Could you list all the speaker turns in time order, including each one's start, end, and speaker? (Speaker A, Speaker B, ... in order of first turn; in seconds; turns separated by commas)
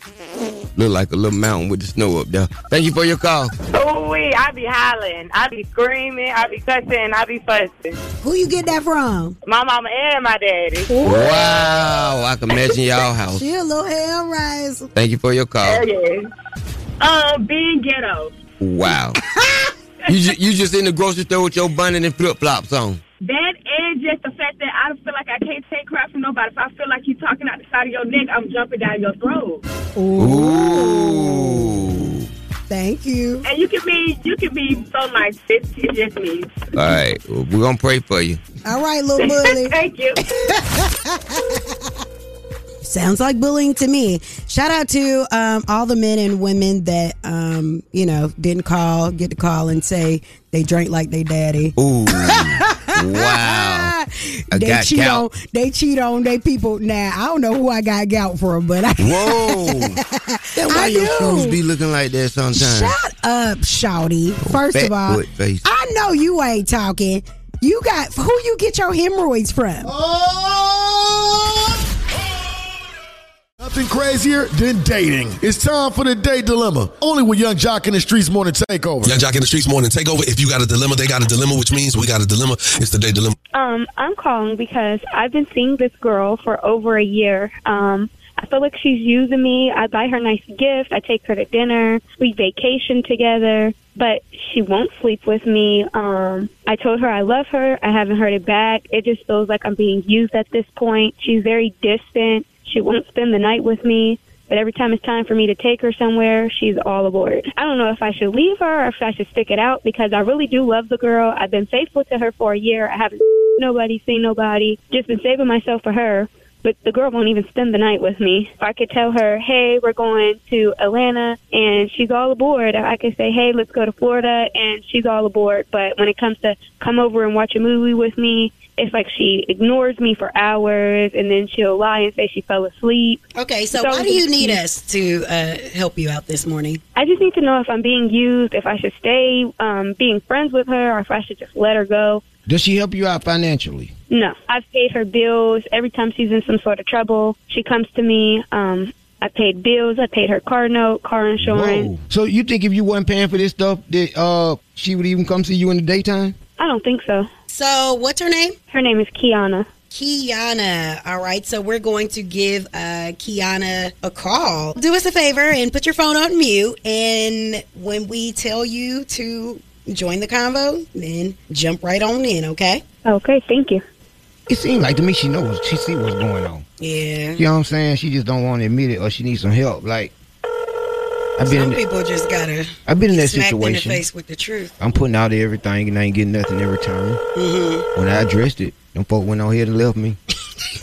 Speaker A: 0.8-3.5, Speaker B: 3.7-7.9, Speaker C: 8.2-9.4, Speaker B: 9.5-11.2, Speaker A: 11.0-13.4, Speaker C: 13.3-14.9, Speaker A: 14.9-15.8, Speaker B: 15.6-16.2, Speaker B: 17.0-18.3, Speaker A: 18.6-19.2, Speaker A: 20.1-23.0, Speaker B: 23.2-29.6, Speaker C: 29.9-31.8, Speaker A: 30.2-32.3, Speaker C: 32.7-33.5, Speaker B: 33.4-36.5, Speaker A: 36.7-38.4, Speaker C: 38.6-41.5, Speaker B: 39.2-40.2, Speaker C: 42.8-61.6, Speaker A: 51.8-53.9, Speaker A: 54.5-55.2, Speaker A: 59.0-60.0, Speaker A: 60.5-62.9, Speaker C: 62.5-69.9, Speaker A: 64.4-65.6, Speaker D: 70.0-70.5, Speaker D: 73.6-79.2, Speaker E: 79.0-83.3, Speaker F: 83.5-133.2, Speaker C: 133.3-136.8, Speaker F: 133.7-134.6, Speaker F: 136.9-142.2, Speaker A: 142.5-143.9, Speaker F: 144.1-151.9, Speaker A: 151.4-156.3, Speaker F: 156.6-157.3, Speaker C: 157.5-158.6, Speaker F: 158.7-159.7, Speaker C: 159.9-172.8, Speaker F: 173.0-173.8, Speaker A: 174.5-176.6, Speaker C: 176.8-177.4, Speaker A: 177.4-180.1, Speaker A: 181.4-181.8, Speaker C: 181.4-184.7, Speaker A: 182.9-184.0, Speaker A: 184.8-187.2, Speaker C: 187.3-187.8, Speaker A: 187.9-190.2